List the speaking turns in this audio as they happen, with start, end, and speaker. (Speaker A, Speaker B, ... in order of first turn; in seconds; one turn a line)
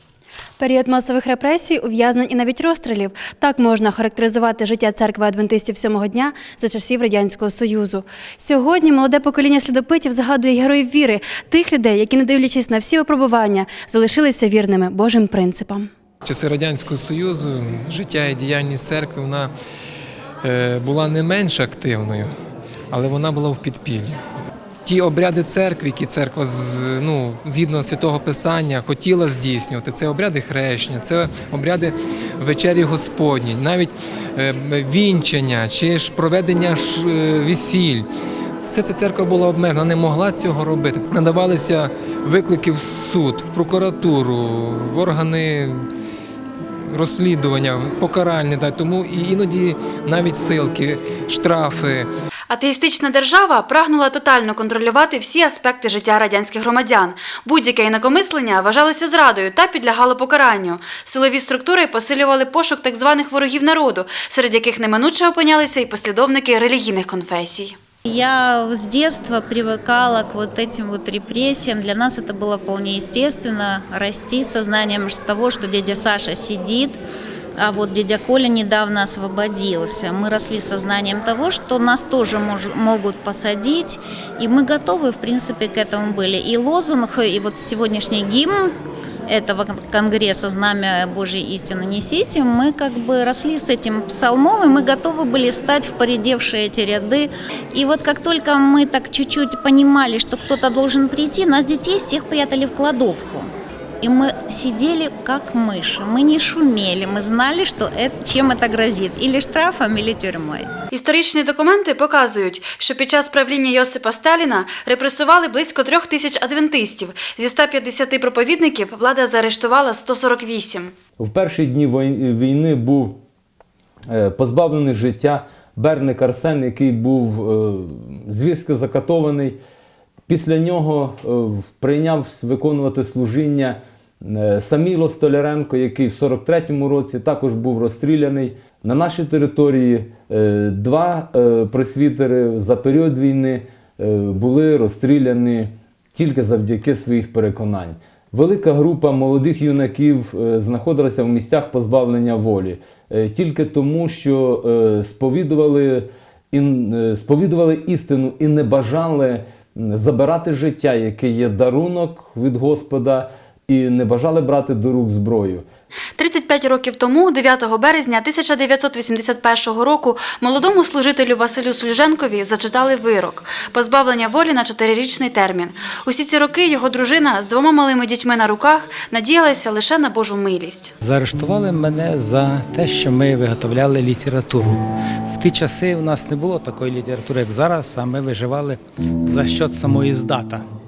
Speaker A: 0.6-15.9
Speaker B: 16.2-19.5
Speaker B: 20.4-22.3
Speaker B: 22.9-24.2
Speaker B: 24.8-38.1
Speaker B: 38.6-45.8
Speaker B: 46.6-52.1
Speaker A: 52.5-67.8
Speaker C: 68.0-77.0
Speaker C: 77.6-88.7
Speaker C: 89.3-103.5
Speaker C: 104.0-110.7
Speaker A: 110.9-120.9
Speaker D: 121.2-123.2
Speaker D: 124.1-129.6
Speaker D: 130.3-165.6
Speaker A: 166.2-180.9
Speaker E: 181.0-190.7